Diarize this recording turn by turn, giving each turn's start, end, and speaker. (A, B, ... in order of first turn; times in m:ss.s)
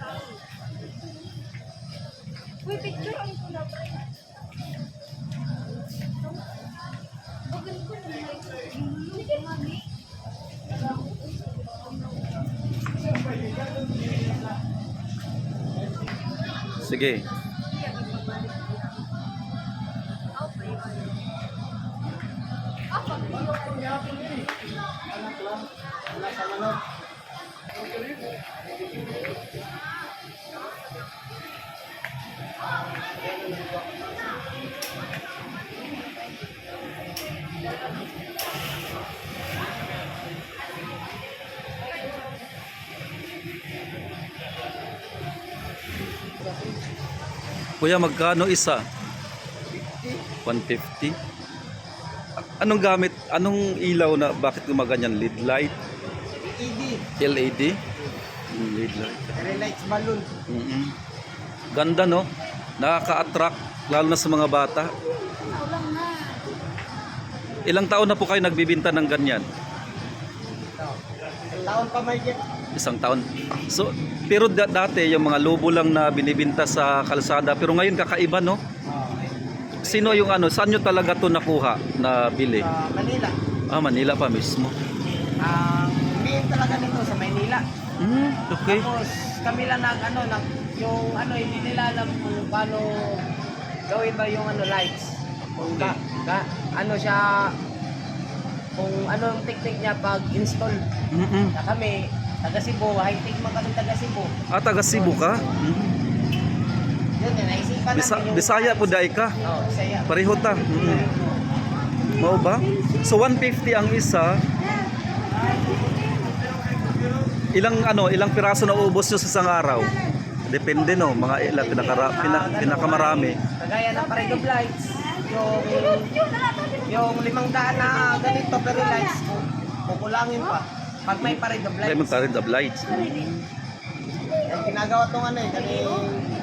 0:02.7-0:03.8 A
0:07.5-0:09.7 A
0:16.8-0:17.3 B
0:26.1-0:26.8 C
0:47.8-0:48.8 B
0:49.8-0:50.2 C
0:50.4-0:51.2 B
0:52.4-0:55.7 B
0:56.4-0:57.0 C
0:57.2-0:57.8 B
0:58.5-0:59.7 B
0:59.3-1:00.3 C
1:00.5-1:00.9 B
1:01.7-1:02.2 B
1:02.8-1:04.9 B
1:05.2-1:06.4 A
1:07.7-1:09.4 B
1:11.5-1:12.4 C
1:12.7-1:18.6 B
1:18.9-1:20.3 C
1:19.8-1:22.6 B
1:22.6-1:23.3 C
1:23.7-1:24.7 B
1:25.4-1:27.6 C
1:28.0-1:28.9 B
1:28.6-1:33.2 C
1:33.9-1:37.5 C
1:35.6-1:35.9 B
1:38.8-1:40.8 C
1:41.1-1:41.5 B
1:41.5-1:44.3 C
1:44.5-1:46.0 B
1:47.2-1:50.1 C
1:47.9-1:49.4 B
1:50.1-1:51.1 B
1:52.1-1:54.4 B
1:55.3-1:55.9 A
1:57.5-2:00.0 B
2:00.5-2:03.4 B
2:01.4-2:06.1 C
2:05.1-2:06.8 A
2:06.9-2:12.2 C
2:11.2-2:13.4 B
2:14.5-2:16.2 C